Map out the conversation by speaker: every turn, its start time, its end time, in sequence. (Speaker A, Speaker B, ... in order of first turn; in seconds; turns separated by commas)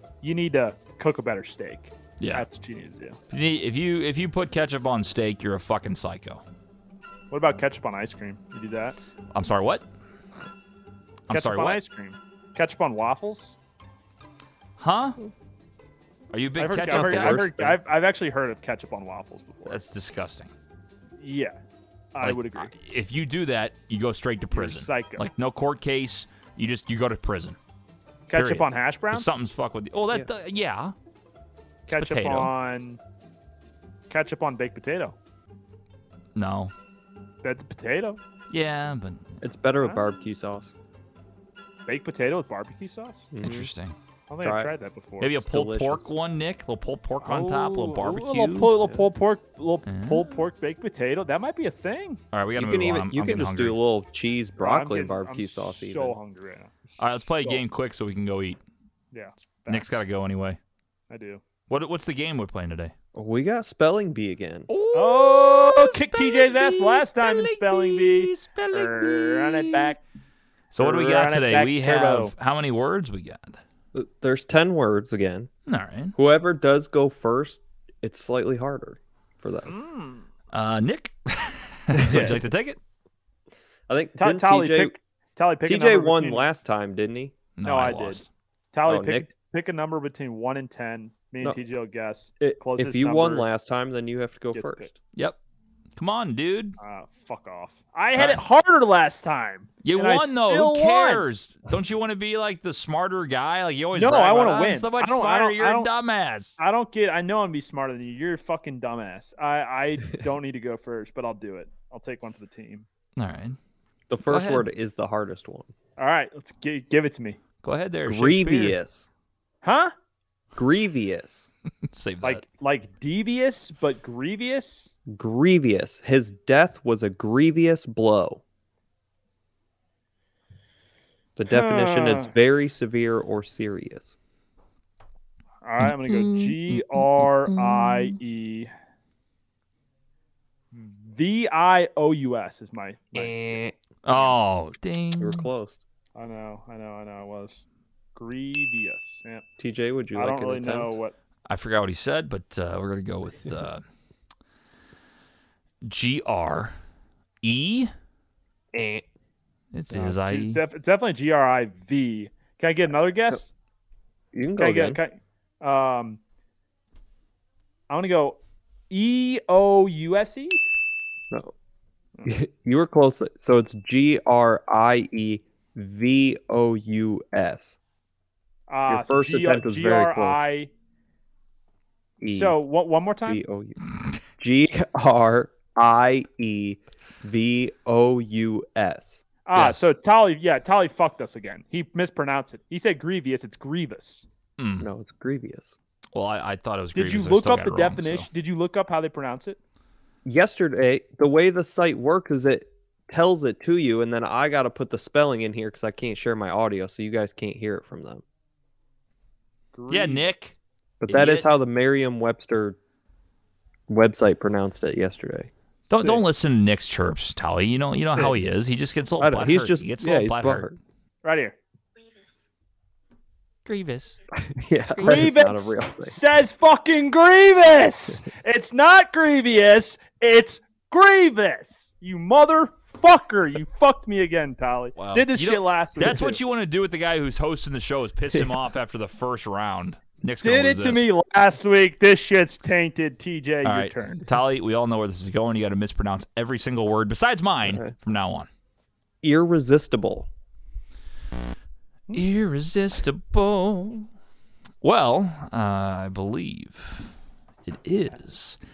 Speaker A: 0.2-3.2, Speaker B: 2.2-2.5, Speaker B: 3.3-6.4, Speaker A: 7.3-9.0, Speaker B: 9.3-9.8, Speaker B: 11.3-11.8, Speaker A: 11.3-13.5, Speaker B: 14.8-15.2, Speaker B: 16.3-17.4, Speaker A: 16.6-19.8, Speaker C: 16.8-17.8, Speaker B: 19.6-20.5, Speaker A: 21.2-21.6, Speaker A: 22.1-22.7, Speaker B: 22.2-27.6, Speaker A: 24.5-25.3, Speaker A: 28.3-29.3, Speaker B: 28.3-30.9, Speaker A: 31.9-33.0, Speaker B: 31.9-32.5, Speaker A: 34.1-35.1, Speaker B: 36.3-36.7, Speaker A: 37.4-38.2, Speaker B: 38.5-39.4, Speaker C: 39.4-40.7, Speaker A: 41.9-43.3, Speaker C: 43.3-43.7, Speaker B: 43.4-44.0, Speaker A: 44.3-45.4, Speaker C: 44.4-44.7, Speaker B: 45.2-48.7, Speaker C: 45.4-46.1, Speaker A: 47.2-52.2, Speaker B: 49.9-50.3, Speaker B: 52.3-53.8, Speaker C: 52.5-56.2, Speaker A: 54.6-57.6, Speaker B: 57.0-58.6, Speaker A: 59.1-60.0, Speaker B: 59.7-60.6, Speaker A: 61.1-61.4, Speaker B: 61.7-62.9, Speaker C: 63.1-64.7, Speaker B: 64.7-70.0, Speaker A: 64.9-70.0, Speaker B: 70.7-73.6, Speaker A: 70.8-72.3, Speaker C: 73.9-75.5, Speaker B: 75.7-76.1, Speaker C: 76.1-79.7, Speaker A: 79.7-80.3, Speaker B: 80.5-82.8, Speaker A: 81.9-82.4, Speaker C: 82.0-82.4, Speaker C: 83.9-85.0, Speaker A: 84.2-86.5, Speaker C: 85.7-87.3, Speaker B: 87.6-88.3, Speaker A: 87.6-93.5, Speaker C: 88.8-89.3, Speaker C: 92.4-94.9, Speaker A: 94.5-94.9, Speaker B: 96.0-96.8, Speaker A: 96.8-101.2, Speaker B: 99.8-106.6, Speaker A: 103.9-105.9, Speaker A: 106.6-112.9, Speaker B: 113.2-113.6, Speaker C: 114.1-115.7, Speaker B: 114.2-114.7, Speaker A: 116.0-117.4, Speaker B: 117.6-118.8, Speaker C: 118.0-119.1, Speaker A: 119.6-119.9, Speaker C: 120.5-121.5, Speaker B: 121.9-122.4, Speaker A: 122.2-124.9, Speaker C: 125.1-128.4, Speaker C: 131.3-134.2, Speaker A: 131.5-132.3, Speaker A: 135.6-138.7, Speaker B: 135.8-138.2, Speaker A: 140.7-143.6, Speaker C: 143.1-143.7, Speaker B: 144.0-145.5, Speaker C: 145.2-145.8, Speaker A: 146.1-147.6, Speaker A: 148.1-149.4, Speaker C: 149.6-151.0, Speaker A: 150.1-151.1, Speaker B: 151.5-153.8, Speaker B: 155.8-156.7, Speaker B: 157.4-157.9, Speaker C: 158.7-159.0, Speaker B: 159.7-160.6, Speaker A: 159.9-163.5, Speaker C: 164.3-165.0, Speaker A: 164.6-166.2, Speaker A: 167.9-170.6, Speaker C: 172.2-177.8, Speaker A: 178.7-180.7, Speaker C: 178.9-180.5, Speaker C: 182.2-182.6, Speaker A: 182.3-183.4, Speaker C: 183.3-183.8, Speaker C: 184.4-189.2, Speaker A: 189.4-194.2, Speaker B: 189.5-189.9, Speaker B: 194.6-194.9, Speaker C: 194.8-195.7, Speaker B: 196.1-198.3, Speaker A: 196.9-199.6, Speaker C: 200.2-208.2, Speaker A: 209.7-210.3, Speaker B: 209.9-210.5, Speaker C: 211.0-212.8, Speaker B: 211.1-211.5, Speaker C: 213.9-215.5, Speaker B: 215.9-220.7, Speaker C: 219.2-220.8, Speaker A: 221.2-221.6, Speaker B: 223.7-224.2, Speaker C: 224.4-226.2, Speaker B: 225.0-225.5, Speaker A: 225.0-236.4, Speaker B: 235.0-241.1, Speaker A: 240.4-244.2, Speaker B: 243.6-248.5, Speaker C: 247.7-247.9, Speaker C: 249.2-250.3, Speaker B: 252.1-254.1, Speaker B: 254.8-257.1, Speaker B: 257.6-258.6